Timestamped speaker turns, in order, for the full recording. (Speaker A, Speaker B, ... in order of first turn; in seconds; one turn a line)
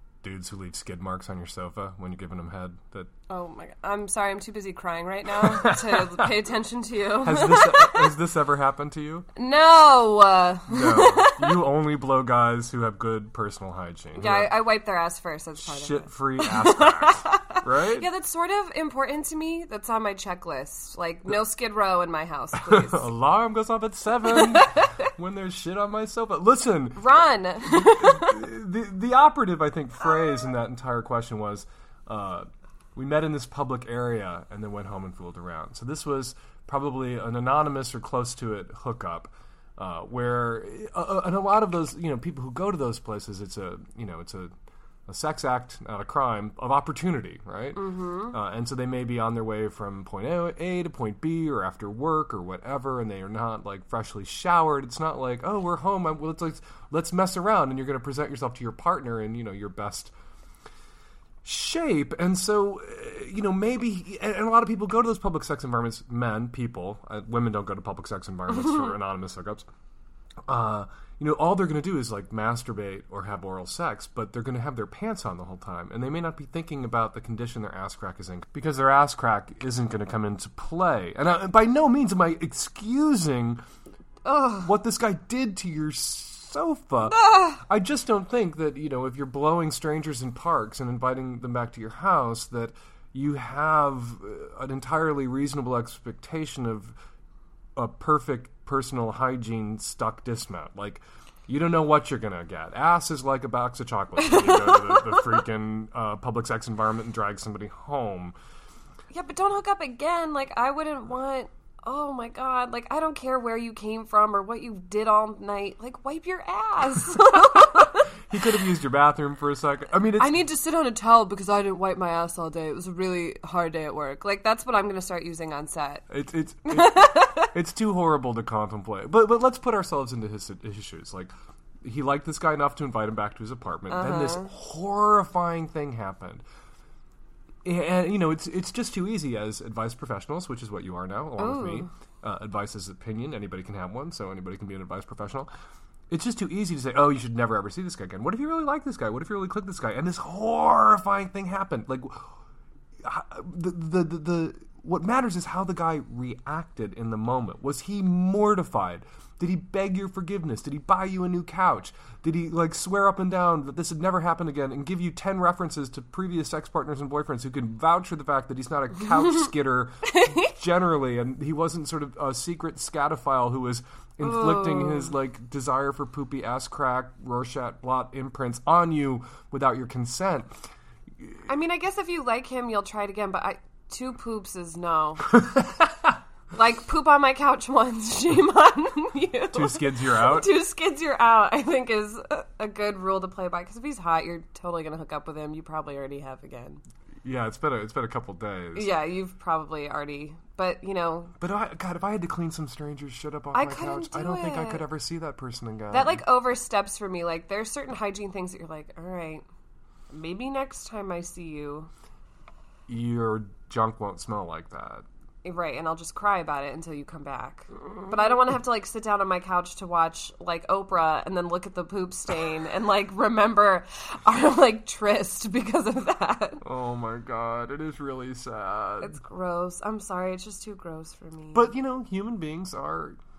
Speaker A: 0.2-3.1
Speaker B: 3.3-8.1
Speaker A: 5.4-6.2
Speaker A: 7.2-9.3
Speaker B: 9.4-11.6
Speaker A: 10.7-14.5
Speaker B: 14.2-23.1
Speaker A: 15.6-18.1
Speaker A: 22.6-44.5
Speaker B: 24.5-24.8
Speaker B: 27.0-28.4
Speaker A: 45.1-60.1
Speaker B: 47.7-48.4
Speaker A: 61.4-69.7
Speaker A: 70.5-83.6
Speaker B: 84.2-84.7
Speaker A: 84.6-97.0
Speaker B: 87.1-87.6
Speaker A: 97.8-108.3
Speaker B: 104.2-105.2
Speaker B: 109.1-118.1
Speaker A: 118.3-120.4
Speaker B: 120.2-126.0
Speaker A: 126.1-136.4
Speaker B: 126.7-127.4
Speaker B: 133.9-134.5
Speaker A: 137.6-145.5
Speaker B: 141.4-141.9
Speaker A: 146.1-152.3
Speaker A: 153.0-180.7
Speaker B: 174.2-175.1
Speaker B: 181.5-185.3
Speaker B: 186.5-196.8
Speaker A: 189.5-190.5
Speaker A: 197.2-198.9
Speaker B: 198.7-201.3
Speaker A: 201.4-206.2
Speaker B: 203.5-204.8
Speaker B: 205.9-209.4
Speaker B: 210.1-211.9
Speaker A: 212.9-215.1
Speaker B: 215.4-226.6
Speaker A: 226.6-229.2
Speaker B: 229.0-231.7
Speaker A: 231.5-233.2